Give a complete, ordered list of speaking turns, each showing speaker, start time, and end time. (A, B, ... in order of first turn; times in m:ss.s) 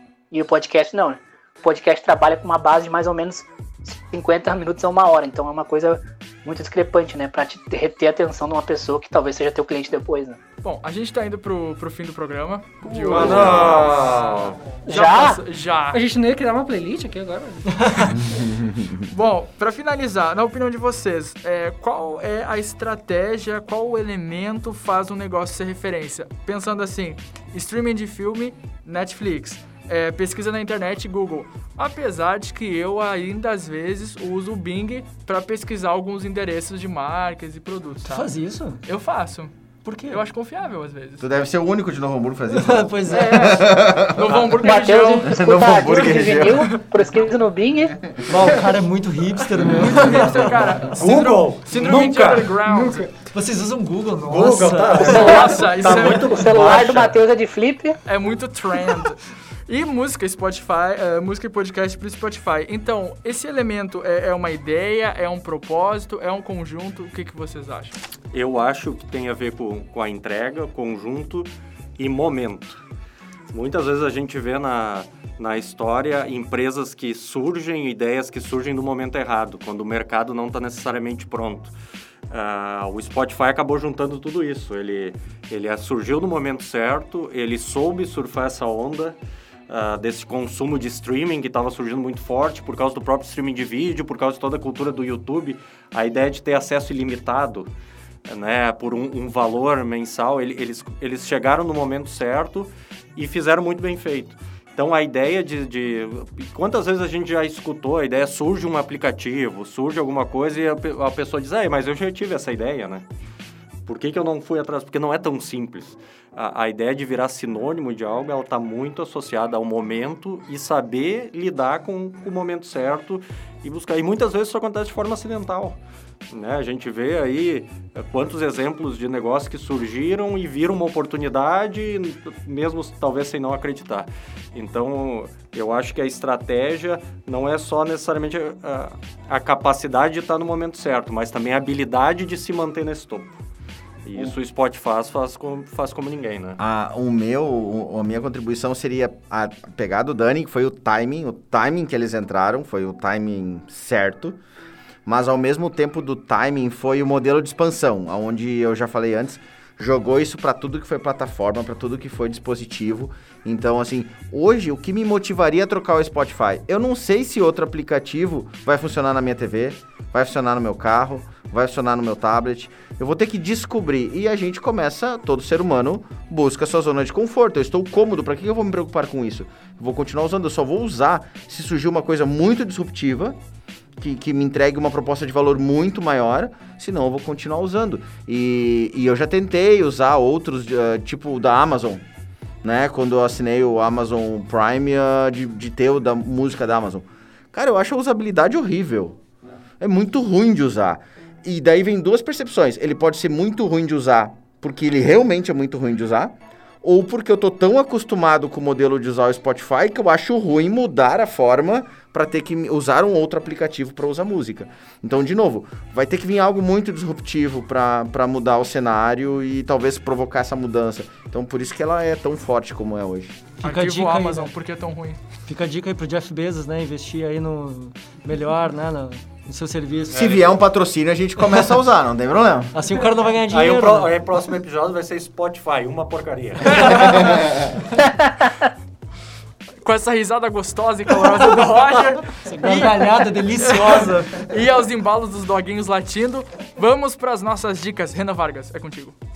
0:00.3-0:10.4 A
0:10.6-0:16.0 B
0:12.9-0:14.6 C
0:13.2-0:13.6 D
0:14.9-0:15.4 A
0:15.9-0:18.1 E
0:19.1-0:38.3 B
0:38.0-0:38.8 D
0:38.8-0:39.5 B
0:39.8-0:40.2 D
0:40.1-0:41.2 B
0:41.2-0:44.3 F
0:42.5-0:43.6 D
0:43.1-0:46.8 B
0:44.6-0:48.0 A
0:45.2-0:46.7 F
0:48.3-0:50.6 D
0:49.6-0:53.1 B
0:50.9-0:52.5 C
0:52.6-0:55.4 D
0:54.3-0:57.2 C
0:55.1-0:58.0 A
0:55.1-0:56.5 B
0:58.0-1:08.0 B
1:08.3-1:12.8 C
1:13.5-1:21.7 C
1:22.3-1:29.2 C
1:29.7-1:37.7 C
1:38.3-1:53.0 C
1:53.8-2:05.8 C
2:06.3-2:23.4 C
2:24.0-2:26.6 C
2:26.6-2:34.4 F
2:35.0-3:03.4 F
3:04.0-3:12.0 F
3:12.6-3:19.2 F
3:19.8-3:43.4 F
3:43.6-3:44.5 D
3:43.6-3:45.2 B
3:45.4-3:50.4 D
3:50.1-3:50.4 C
3:50.1-3:52.7 F
3:52.7-3:54.1 D
3:53.5-3:57.6 C
3:59.8-4:09.1 B
4:02.4-4:04.4 D